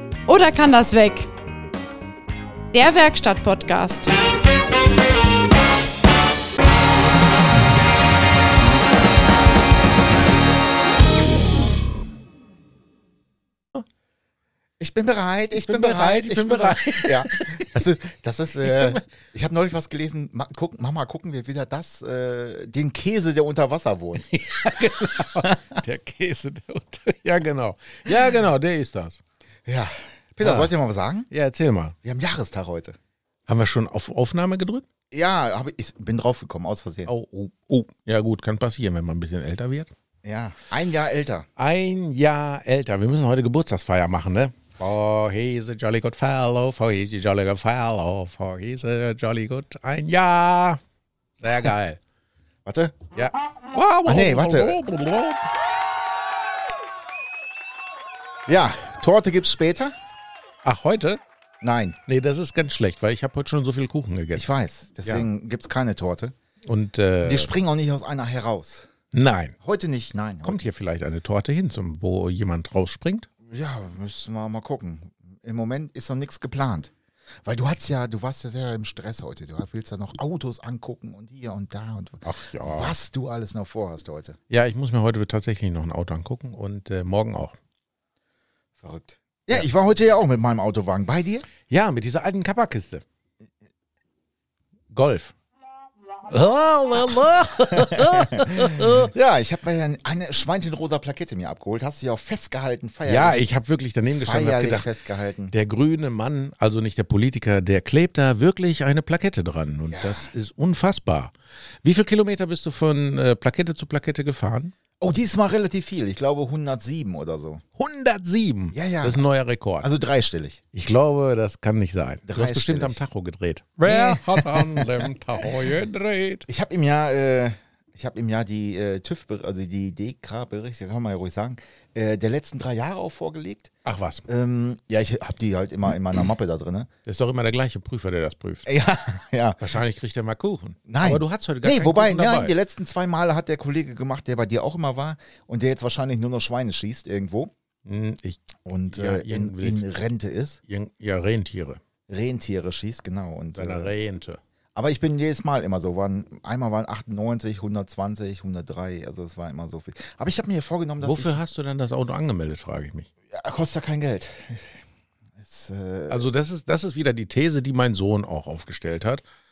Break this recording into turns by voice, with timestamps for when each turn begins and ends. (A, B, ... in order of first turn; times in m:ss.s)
0:00.3-0:01.3 A
0:02.7-0:04.1 A
0:14.8-0:24.3 B
0:15.6-0:17.7 C
0:18.6-0:19.0 C
0:24.2-0:29.2 C
0:25.0-0:25.7 B
0:29.7-0:31.3 B
0:30.4-0:30.7 C
0:31.3-0:32.0 C
0:32.0-0:33.0 B
0:33.5-0:34.9 C
0:35.1-0:37.1 B
0:37.1-0:39.9 C
0:40.2-0:41.5 B
0:41.6-0:50.8 C
0:51.4-0:52.0 C
0:52.7-0:53.0 B
0:53.2-0:55.4 C
0:54.0-0:54.8 B
0:58.5-1:00.0 B
1:00.6-1:01.2 C
1:01.6-1:02.0 B
1:02.1-1:04.5 C
1:04.4-1:06.3 B
1:06.7-1:07.5 C
1:07.2-1:08.9 B
1:09.1-1:09.6 C
1:09.6-1:10.6 B
1:10.4-1:13.3 C
1:13.5-1:16.9 B
1:17.4-1:24.4 B
1:22.2-1:23.0 C
1:24.5-1:27.6 C
1:28.8-1:31.5 B
1:31.7-1:33.0 C
1:34.9-1:35.4 C
1:36.2-1:39.1 C
1:37.7-1:43.5 B
1:43.0-1:44.9 C
1:44.1-1:45.5 B
1:45.5-1:54.7 C
1:49.9-1:50.3 B
1:55.0-1:57.6 B
1:57.8-1:59.9 C
1:58.7-1:59.2 B
1:59.8-2:00.6 B
2:00.7-2:06.5 C
2:02.3-2:03.0 B
2:03.8-2:05.1 B
2:06.5-2:13.7 B
2:13.8-2:14.3 C
2:14.3-2:16.9 B
2:17.0-2:18.7 C
2:18.6-2:19.6 B
2:19.6-2:22.5 C
2:20.9-2:27.5 B
2:27.9-2:29.9 C
2:28.7-2:30.6 B
2:30.7-2:31.8 C
2:32.1-2:33.9 B
2:33.6-2:34.4 C
2:34.8-2:41.4 B
2:41.0-2:43.1 C
2:43.3-2:44.8 B
2:45.4-2:46.2 B
2:46.1-2:49.2 C